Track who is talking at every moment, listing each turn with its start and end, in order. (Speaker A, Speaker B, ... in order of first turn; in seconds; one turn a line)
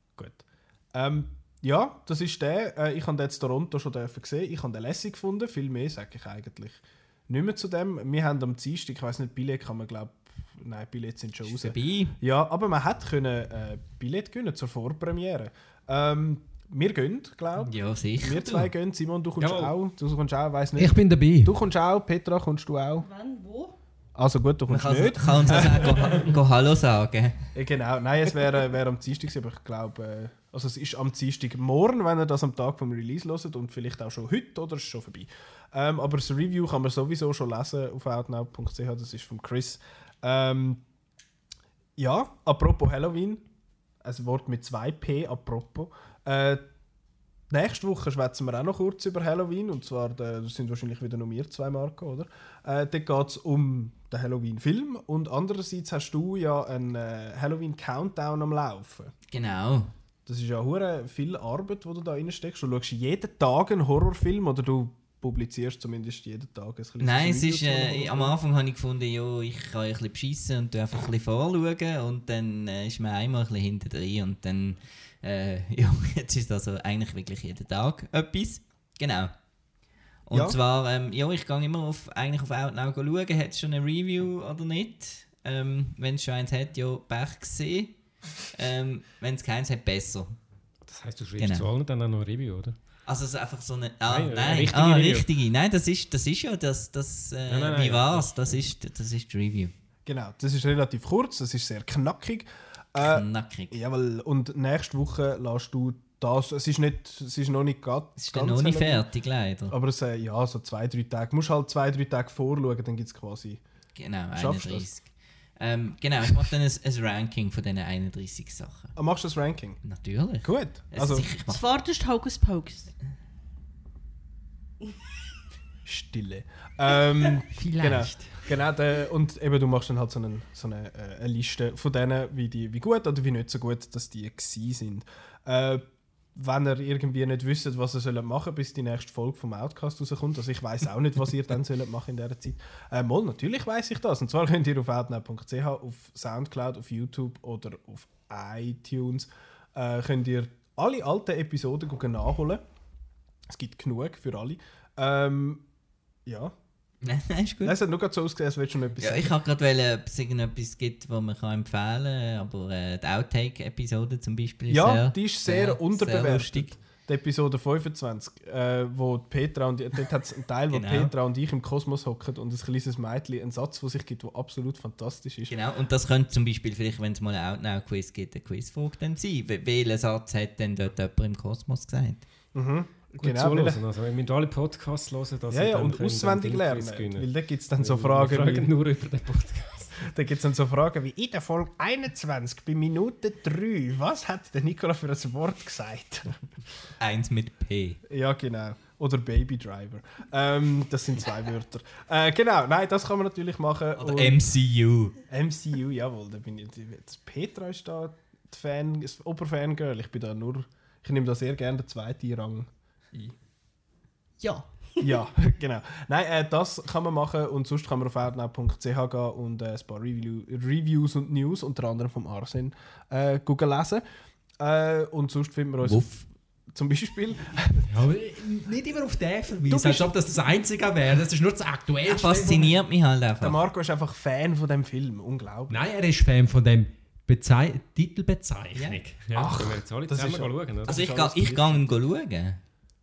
Speaker A: 0.2-23.1
Speaker B: 11.4-12.2
Speaker B: 17.6-18.7
Speaker C: 19.4-19.7
Speaker D: 20.8-21.5
Speaker E: 23.0-23.8
Speaker A: 24.1-26.3
Speaker B: 24.7-27.5
Speaker A: 27.5-40.8
Speaker A: 42.0-43.4
Speaker A: 44.0-46.6
Speaker A: 47.5-59.1
Speaker B: 59.3-59.9
Speaker A: 60.2-68.4
Speaker B: 67.0-79.3
Speaker B: 80.3-87.9
Speaker A: 80.3-80.6
Speaker B: 88.5-90.3
Speaker C: 90.8-92.8
Speaker B: 91.4-91.7
Speaker B: 93.0-99.7
Speaker C: 94.1-95.3
Speaker C: 97.5-98.6
Speaker A: 100.0-109.0
Speaker B: 103.0-103.8
Speaker B: 108.2-109.7
Speaker A: 109.7-113.6
Speaker B: 113.9-118.9
Speaker A: 114.3-114.9
Speaker A: 119.0-119.8
Speaker B: 119.8-121.7
Speaker A: 120.4-121.2
Speaker E: 121.5-122.9
Speaker A: 125.8-152.6
Speaker D: 127.5-128.4
Speaker A: 153.5-155.6
Speaker A: 156.2-156.5
Speaker B: 157.0-157.8
Speaker A: 157.6-159.3
Speaker B: 159.0-166.7
Speaker A: 164.7-175.5
Speaker B: 170.7-171.1
Speaker B: 175.5-182.2
Speaker A: 182.5-183.8
Speaker C: 183.2-190.0
Speaker A: 185.5-188.7
Speaker A: 190.0-196.4
Speaker B: 197.0-198.0
Speaker A: 198.1-204.4
Speaker B: 203.9-205.2
Speaker A: 205.3-213.3
Speaker E: 214.4-214.7
Speaker A: 215.0-224.0
Speaker A: 224.6-226.2
Speaker B: 225.8-226.2
Speaker A: 226.7-227.9
Speaker D: 227.9-232.8
Speaker A: 229.7-230.2
Speaker B: 232.0-233.6
Speaker A: 233.4-235.8
Speaker D: 235.7-239.5
Speaker B: 238.7-239.0
Speaker C: 239.3-241.1
Speaker A: 239.3-241.9
Speaker B: 240.9-242.6